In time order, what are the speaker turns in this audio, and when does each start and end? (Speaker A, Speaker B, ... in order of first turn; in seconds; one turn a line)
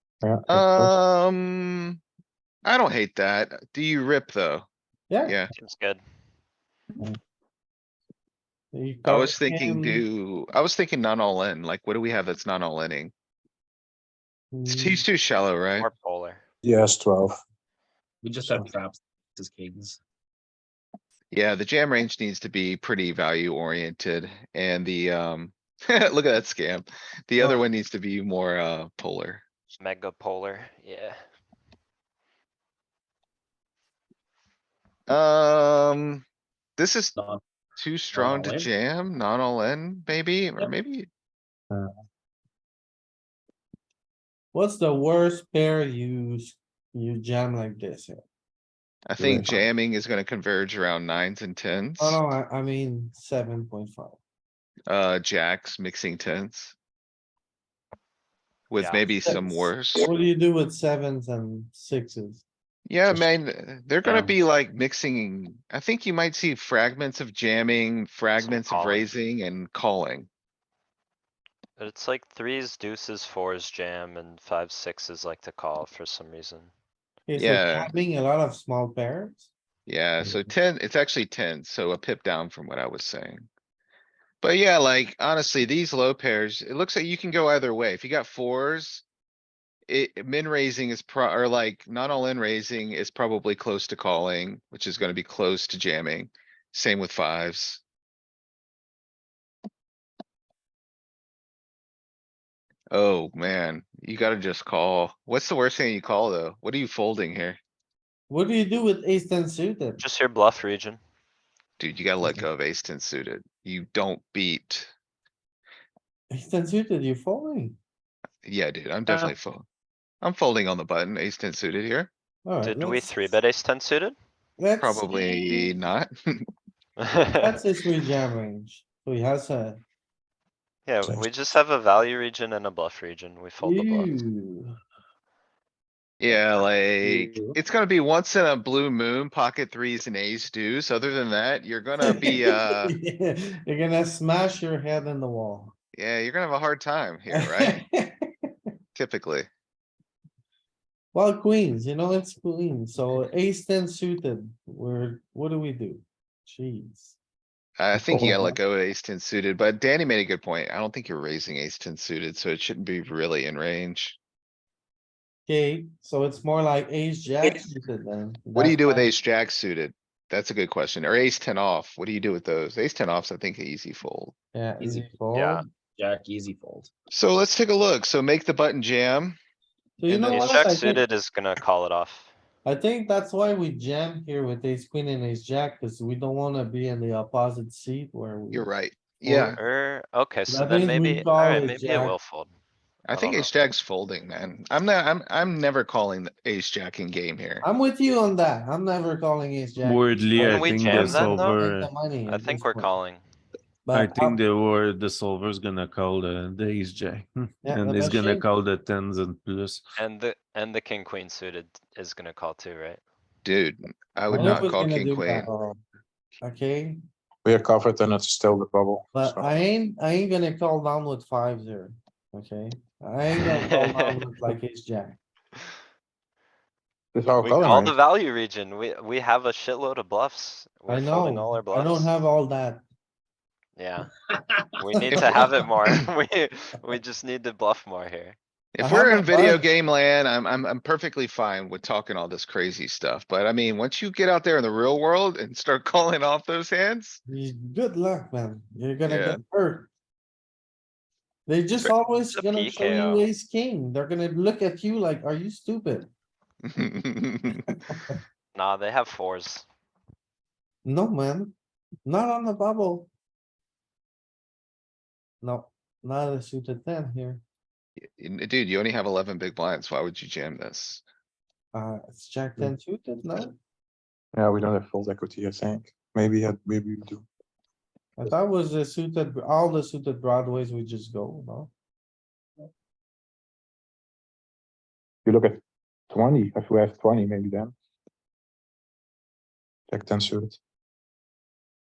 Speaker A: 0.2-0.9
Speaker B: 0.5-2.0
Speaker B: 2.6-4.7
Speaker C: 5.1-5.3
Speaker B: 5.2-5.5
Speaker D: 5.5-6.0
Speaker C: 8.7-10.0
Speaker B: 9.0-13.1
Speaker C: 14.5-15.0
Speaker B: 14.7-15.9
Speaker D: 15.8-16.4
Speaker A: 16.6-17.4
Speaker E: 18.2-20.0
Speaker B: 21.3-29.4
Speaker D: 29.8-31.2
Speaker B: 35.1-36.2
Speaker B: 36.8-37.1
Speaker E: 37.1-37.4
Speaker B: 37.8-41.1
Speaker E: 38.1-38.7
Speaker C: 44.5-48.2
Speaker B: 49.1-52.2
Speaker A: 49.2-49.5
Speaker C: 49.2-49.6
Speaker C: 52.0-54.2
Speaker B: 54.9-56.7
Speaker B: 58.7-60.1
Speaker D: 58.8-59.3
Speaker C: 59.2-62.4
Speaker B: 62.9-70.3
Speaker E: 64.0-64.3
Speaker D: 68.4-69.1
Speaker D: 71.8-76.7
Speaker C: 77.3-79.5
Speaker B: 77.3-77.9
Speaker B: 79.8-83.4
Speaker B: 84.4-89.0
Speaker B: 89.9-97.8
Speaker B: 102.9-107.6
Speaker C: 108.3-110.0
Speaker D: 110.0-111.0
Speaker B: 111.8-114.9
Speaker C: 116.3-117.8
Speaker B: 118.4-119.6
Speaker B: 120.2-122.1
Speaker C: 122.4-123.3
Speaker D: 122.6-124.2
Speaker C: 124.6-125.7
Speaker B: 124.8-126.5
Speaker D: 127.0-127.6
Speaker C: 127.4-129.8
Speaker D: 130.8-134.2
Speaker C: 133.6-134.7
Speaker B: 136.2-142.9
Speaker E: 137.0-137.5
Speaker C: 142.0-145.7
Speaker B: 145.9-147.8
Speaker C: 147.3-148.5
Speaker B: 148.9-149.5
Speaker C: 151.1-157.2
Speaker B: 157.8-164.2
Speaker A: 158.0-158.6
Speaker C: 165.5-169.1
Speaker B: 168.5-174.3
Speaker C: 174.5-175.7
Speaker E: 174.8-175.1
Speaker D: 175.3-175.6
Speaker E: 176.0-176.9
Speaker B: 177.1-179.4
Speaker C: 180.0-181.0
Speaker B: 180.1-180.7
Speaker D: 180.3-182.3
Speaker C: 182.6-188.7
Speaker B: 188.5-189.6
Speaker C: 189.2-189.6
Speaker D: 189.6-192.5
Speaker C: 190.5-192.2
Speaker B: 193.1-197.6
Speaker D: 193.1-193.7
Speaker C: 197.6-202.9
Speaker F: 199.8-201.9
Speaker D: 200.3-201.6
Speaker D: 202.2-203.2
Speaker C: 203.8-204.4
Speaker F: 203.9-209.8
Speaker C: 207.6-208.5
Speaker D: 210.0-213.0
Speaker B: 213.4-215.5
Speaker C: 214.3-215.7
Speaker A: 214.3-214.7
Speaker A: 215.5-215.8
Speaker C: 216.4-217.0
Speaker A: 217.4-219.6
Speaker C: 219.1-225.2
Speaker D: 223.4-224.2
Speaker A: 227.1-227.9
Speaker D: 227.4-232.1
Speaker C: 230.9-232.8
Speaker D: 233.8-234.1
Speaker D: 234.8-238.3
Speaker C: 235.1-235.4
Speaker B: 235.1-235.4
Speaker B: 238.7-247.2
Speaker C: 238.8-239.7
Speaker C: 247.3-249.9
Speaker B: 249.1-249.4
Speaker C: 251.5-256.1
Speaker D: 252.3-253.3
Speaker B: 256.7-257.6
Speaker D: 258.5-259.6
Speaker C: 260.8-263.1
Speaker C: 265.4-267.4
Speaker B: 268.2-271.0
Speaker C: 271.7-273.5
Speaker A: 274.3-277.2
Speaker C: 278.2-281.7
Speaker A: 285.2-287.7
Speaker A: 289.9-290.6